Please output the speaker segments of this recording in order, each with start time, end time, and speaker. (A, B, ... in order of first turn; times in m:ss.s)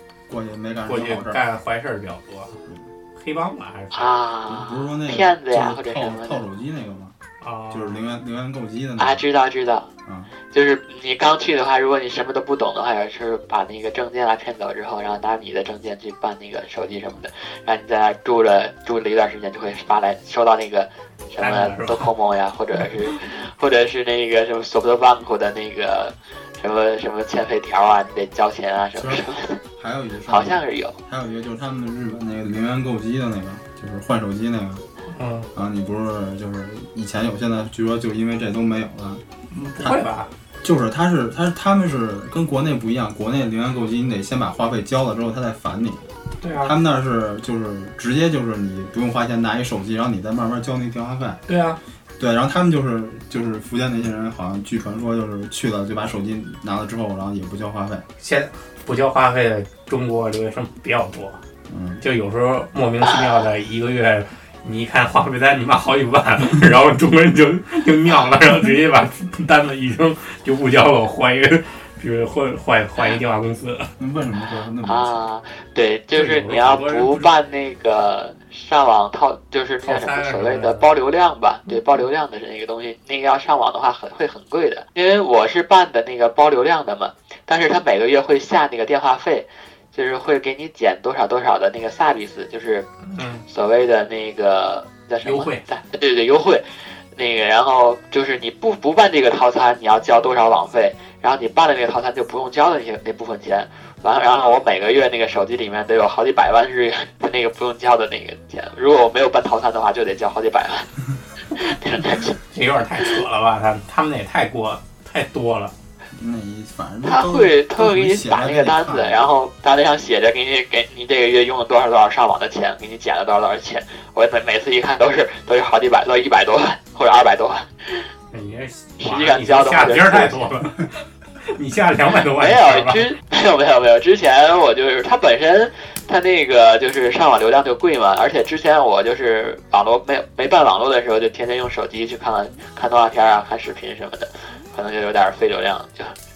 0:00.3-0:01.4 A
0:00.9-0:02.6 B
0:03.2-0:04.1 B
0:03.9-0:06.4 C
0:04.5-0:07.2 A
0:07.4-0:08.0 B
0:07.7-0:09.2 A
0:09.0-0:09.9 C
0:10.0-0:10.3 A
0:10.5-0:29.6 C
0:21.4-0:22.1 B
0:29.0-0:34.8 A
0:30.3-0:31.0 C
0:35.1-0:35.5 B
0:35.5-0:39.2 A
0:39.5-0:40.3 B
0:40.6-0:46.1 A
0:46.4-0:46.8 B
0:46.6-0:51.4 A
0:51.5-0:51.8 B
0:52.2-0:58.1 A
0:58.2-1:01.4 B
1:01.7-1:02.0 A
1:02.0-1:13.9 B
1:14.0-1:15.2 A
1:14.9-1:32.9 C
1:16.1-1:17.3 B
1:19.8-1:20.9 B
1:33.0-1:33.5 B
1:33.5-1:50.9 C
1:35.2-1:35.7 B
1:51.5-1:52.4 C
1:52.4-1:55.8 B
1:56.1-1:59.2 A
1:57.0-2:08.0 C
2:08.3-2:13.1 B
2:09.0-2:10.5 C
2:12.4-2:26.2 C